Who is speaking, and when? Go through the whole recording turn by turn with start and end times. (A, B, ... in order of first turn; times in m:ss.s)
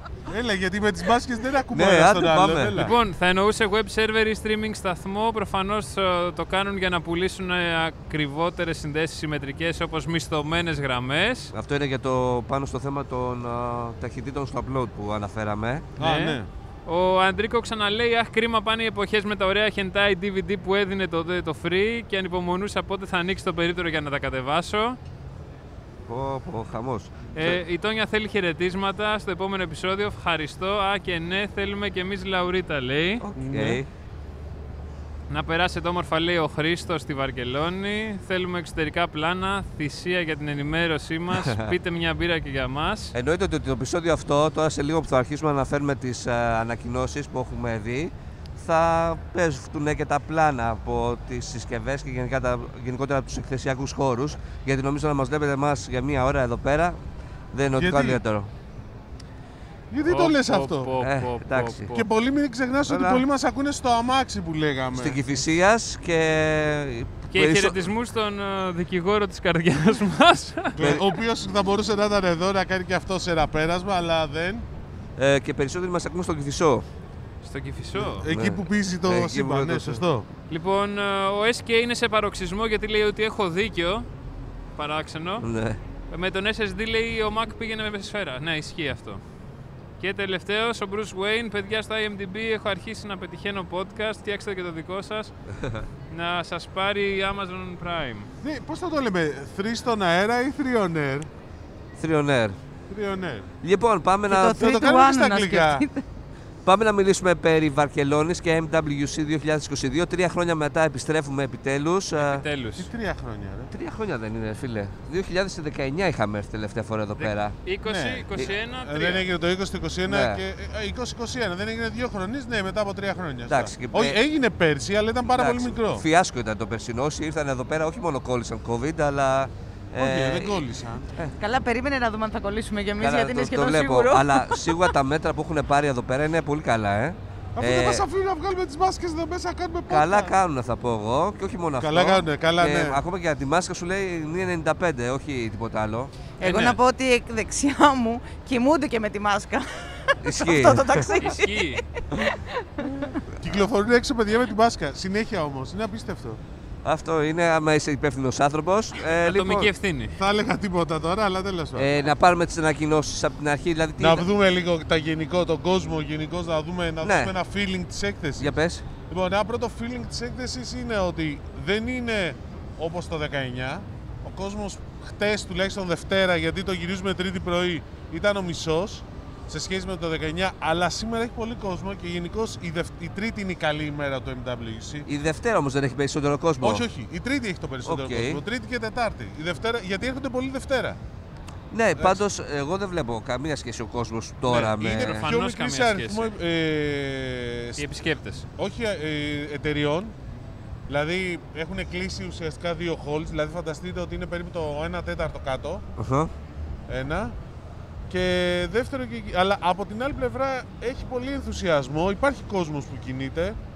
0:00.3-0:03.0 A
0:01.7-0:02.9 B
0:02.8-0:11.5 C
0:11.5-0:15.9 B
0:16.0-0:25.0 C
0:16.0-0:16.5 A
0:26.1-0:27.6 B
0:27.3-0:33.2 C
0:33.2-0:33.9 B
0:33.4-0:33.8 A
0:35.3-0:43.1 C
0:41.3-0:41.7 B
0:43.1-0:57.0 B
0:57.5-0:58.5 B
0:57.7-0:58.2 A
0:59.9-1:00.9 A
1:00.0-1:02.0 C
1:01.0-1:01.9 B
1:01.9-1:05.2 A
1:02.9-1:03.2 B
1:04.9-1:07.9 B
1:07.3-1:11.0 C
1:10.8-1:14.6 A
1:15.2-1:16.8 B
1:17.4-1:18.3 C
1:18.0-1:20.3 A
1:18.2-1:20.0 B
1:20.5-1:24.1 C
1:24.8-1:25.5 C
1:25.4-1:25.8 B
1:26.1-1:29.2 C
1:30.0-1:35.3 C
1:35.5-1:35.9 B
1:36.1-1:38.3 C
1:38.4-1:41.3 A
1:42.0-1:42.6 B
1:42.9-1:43.5 A
1:43.6-1:44.7 B
1:44.3-1:46.0 D
1:44.5-1:45.8 A
1:46.6-1:52.4 B
1:52.2-1:52.9 C
1:52.8-1:53.7 A
1:53.7-1:57.5 B
1:57.2-1:59.2 C
1:57.8-2:06.0 A
2:00.1-2:00.4 B
2:03.5-2:04.2 B
2:05.3-2:11.3 B
2:10.0-2:11.1 A
2:11.4-2:14.9 D
2:13.0-2:18.0 B
2:17.6-2:20.4 A
2:19.9-2:26.1 B
2:21.8-2:23.0 A
2:26.4-2:26.8 C
2:26.4-2:33.2 D
2:30.2-2:31.2 B
2:31.1-2:31.9 C
2:33.4-2:36.4 A
2:36.8-2:39.7 B
2:39.2-2:40.2 C
2:40.2-2:41.9 A
2:41.8-2:44.2 B
2:44.0-2:48.6 A
2:47.0-2:47.3 B
2:48.4-2:48.8 B
2:49.1-3:05.1 A
3:05.0-3:06.8 B
3:06.6-3:11.0 A
3:07.8-3:08.4 B
3:11.7-3:15.2 B
3:11.9-3:12.2 A
3:14.4-3:17.9 A
3:15.0-3:16.3 C
3:17.8-3:18.4 C
3:18.6-3:20.1 A
3:20.9-3:25.8 A
3:26.0-3:26.3 B
3:26.9-3:27.4 A
3:28.1-3:33.6 A